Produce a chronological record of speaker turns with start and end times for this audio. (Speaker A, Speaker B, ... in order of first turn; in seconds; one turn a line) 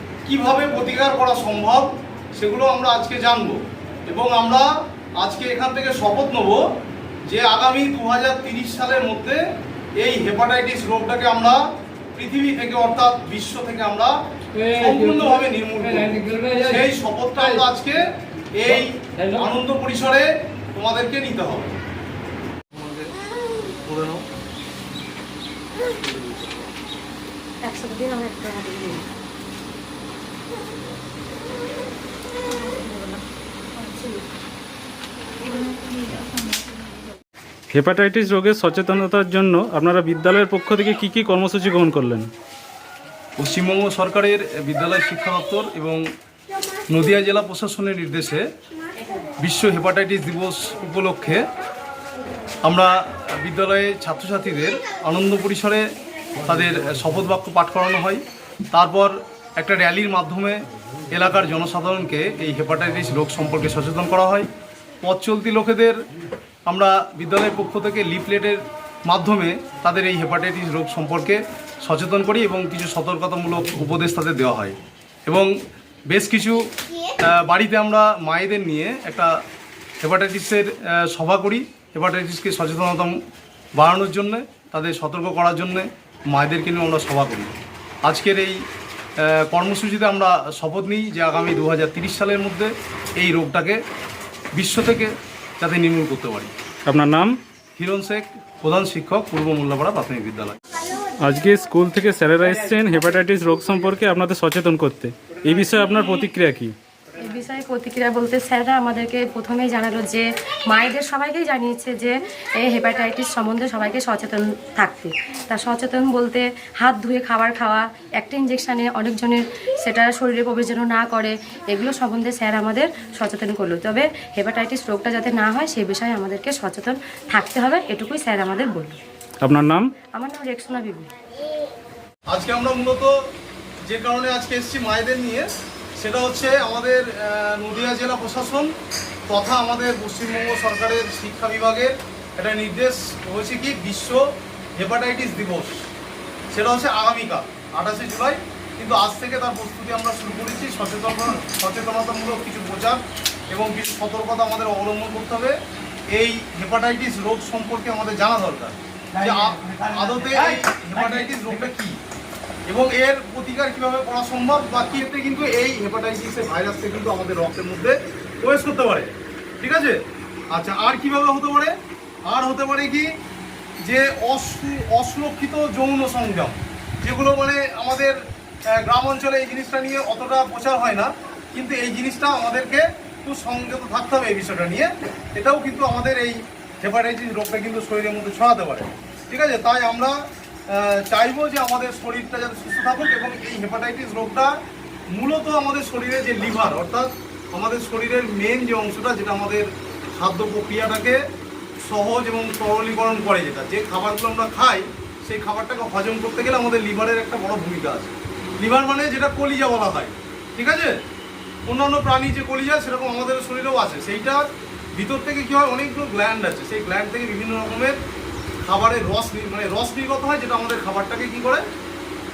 Speaker A: 0.2-6.6
Speaker A: 7.3-9.4
Speaker A: 10.0-11.6
Speaker A: 12.2-18.0
Speaker A: 18.6-21.7
Speaker A: 22.7-23.1
Speaker A: 23.7-24.2
Speaker A: 26.0-26.6
Speaker B: 27.6-29.0
Speaker B: 32.6-33.2
Speaker B: 33.8-34.2
Speaker B: 35.7-36.2
Speaker C: 37.7-42.3
Speaker A: 43.4-46.0
Speaker A: 46.9-48.4
Speaker A: 49.4-51.4
Speaker A: 52.6-55.9
Speaker A: 56.5-58.2
Speaker A: 58.7-60.6
Speaker A: 61.1-64.5
Speaker A: 65.0-66.0
Speaker A: 66.7-74.8
Speaker A: 76.1-76.6
Speaker A: 77.3-79.3
Speaker A: 80.0-83.2
Speaker A: 83.8-87.5
Speaker A: 88.0-88.6
Speaker A: 89.2-93.8
Speaker A: 94.6-96.5
Speaker C: 96.9-97.3
Speaker A: 97.8-100.6
Speaker C: 101.2-106.7
Speaker B: 107.2-129.0
Speaker C: 129.4-129.9
Speaker B: 130.1-131.1
Speaker A: 132.3-133.1
Speaker A: 133.9-135.5
Speaker A: 136.0-138.7
Speaker A: 139.3-144.2
Speaker A: 144.8-145.8
Speaker A: 146.5-153.0
Speaker A: 153.5-155.5
Speaker A: 156.2-162.0
Speaker A: 162.7-170.0
Speaker A: 170.5-171.7
Speaker A: 172.3-173.1
Speaker A: 173.9-178.2
Speaker A: 178.8-190.1
Speaker A: 190.7-194.5
Speaker A: 195.1-201.2
Speaker A: 201.8-210.9
Speaker A: 211.7-214.4
Speaker A: 215.0-218.0
Speaker A: 218.7-221.6